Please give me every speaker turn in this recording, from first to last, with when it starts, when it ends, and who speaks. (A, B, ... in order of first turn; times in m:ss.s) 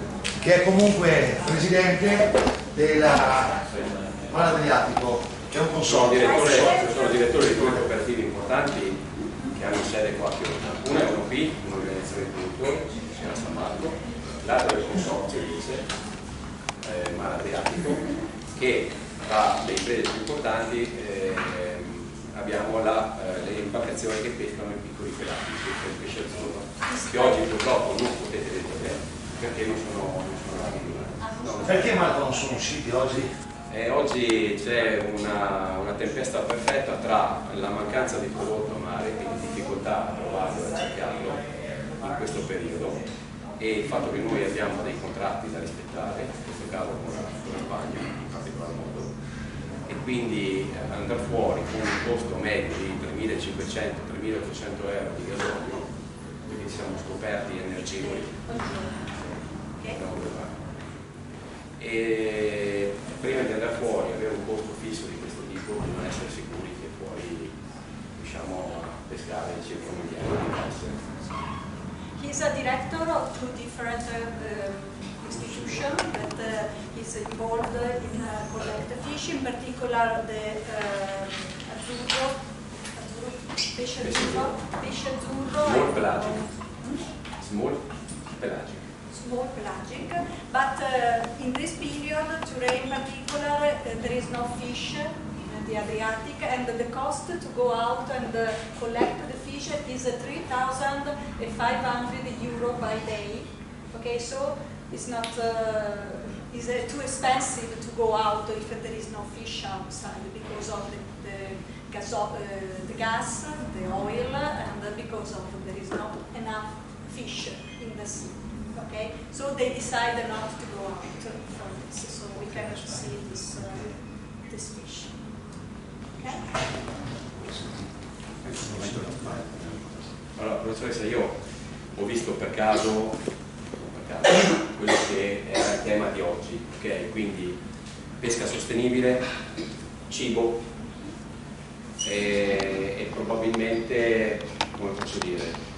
0:00.4-0:03.6 A
0:03.7-0:04.0 B
0:04.3-0:06.6 A
0:05.9-0:15.9 B
0:06.2-0:07.3 C
0:16.8-0:31.9 B
0:26.9-0:27.4 C
0:31.2-0:31.6 C
0:31.6-0:33.3 A
0:33.7-0:41.4 B
0:42.0-0:43.0 B
0:43.6-0:49.1 B
0:49.9-0:55.9 B
0:56.4-0:58.5 B
0:58.6-0:58.9 C
0:59.9-1:00.6 B
1:01.8-1:07.5 B
1:08.2-1:11.0 B
1:12.2-1:22.4 C
1:22.9-1:27.0 C
1:24.0-1:24.6 B
1:25.6-1:26.4 B
1:27.4-1:27.8 B
1:28.4-1:28.9 B
1:29.1-2:05.2 C
2:06.2-2:06.5 C
2:08.5-2:10.1 A
2:10.3-2:11.4 B
2:11.9-2:13.2 B
2:13.8-2:17.6 B
2:18.2-2:19.3 B
2:20.1-2:20.7 B
2:22.0-2:25.6 B